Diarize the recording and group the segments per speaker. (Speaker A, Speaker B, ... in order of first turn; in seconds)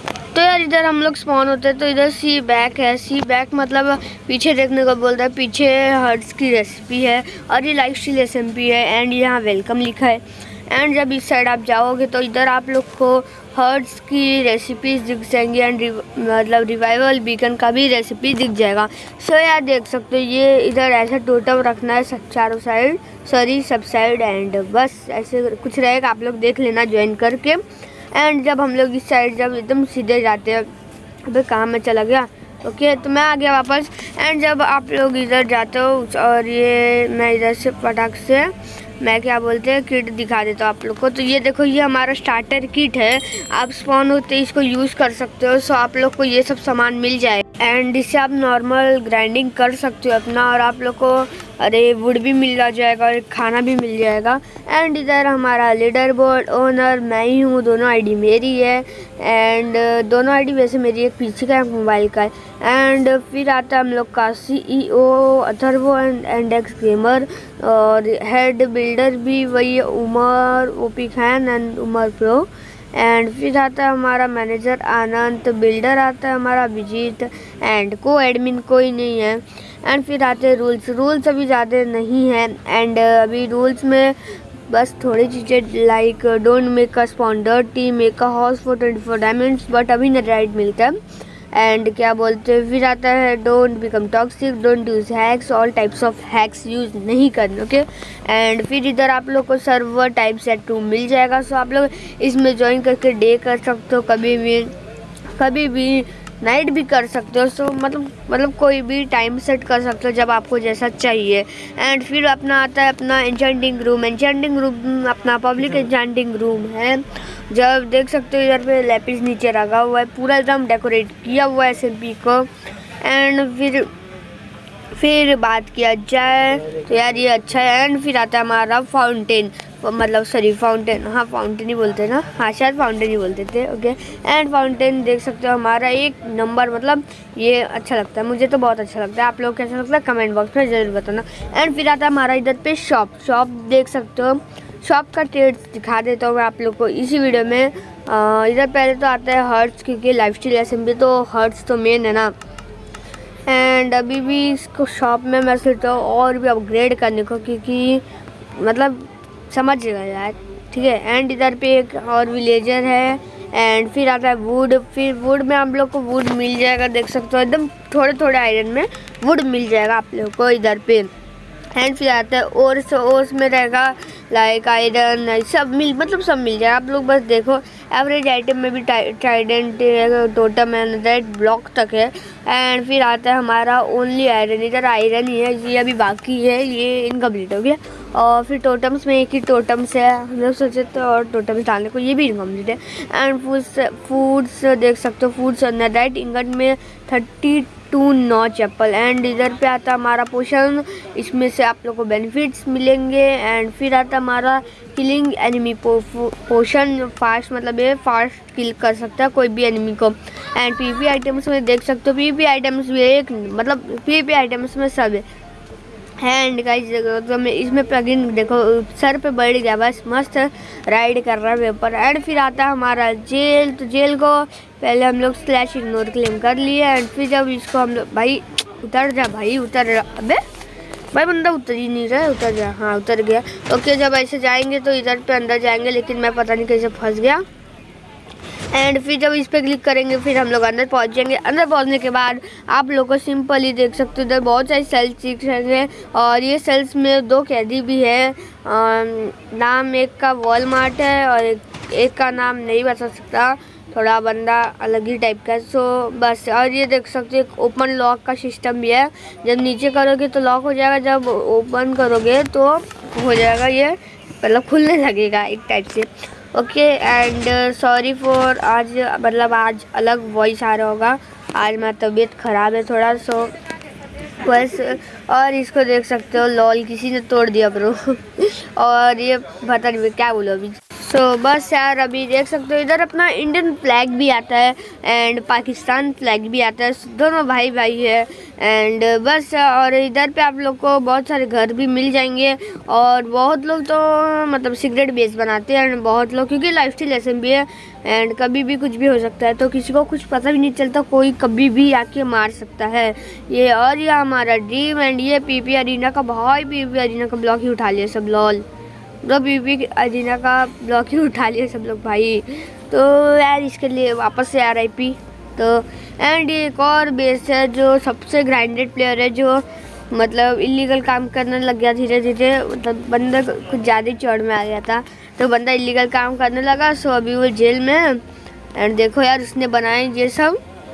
Speaker A: 0.3-30.7, 31.3-91.0, 91.5-104.7, 105.4-122.5, 123.0-123.9, 124.9-152.3, 153.5-158.0, 158.6-171.1, 171.7-215.2, 216.2-230.4, 231.1-237.4, 238.7-273.5, 274.4-308.6, 309.2-328.2, 328.7-330.6